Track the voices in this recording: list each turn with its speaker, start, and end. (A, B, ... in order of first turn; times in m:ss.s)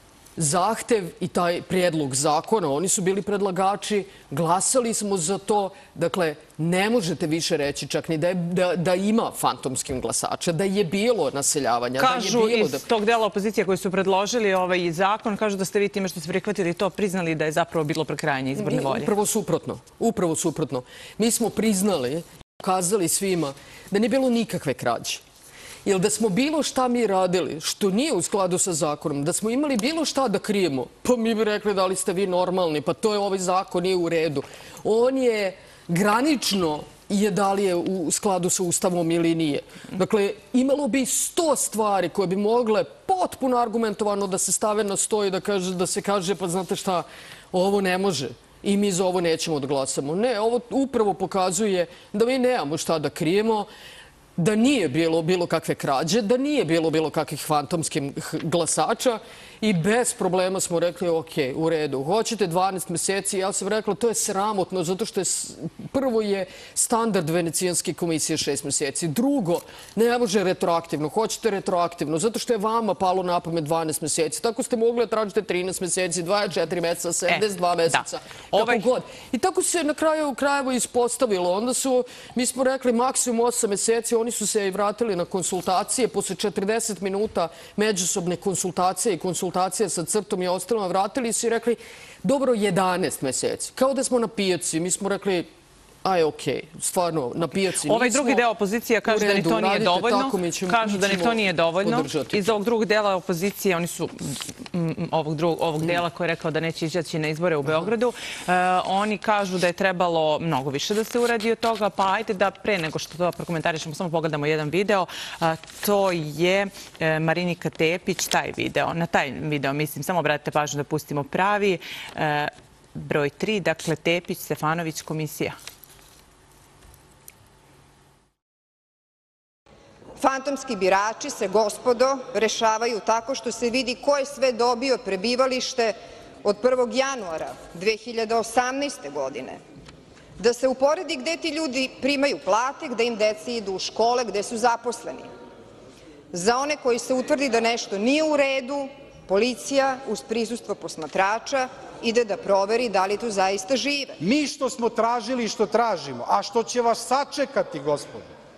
0:00.4-0:12.8 A
0:12.0-0:19.1 B
0:18.6-0:25.2 A
0:25.8-0:53.7 A
0:54.4-1:35.5 A
1:18.5-1:18.9 B
1:36.0-1:38.4 A
1:37.8-2:05.6 B
1:39.1-1:42.4 A
2:10.2-2:19.6 C
2:20.4-2:25.3 C
2:26.3-2:34.2 C
2:34.2-2:38.3 D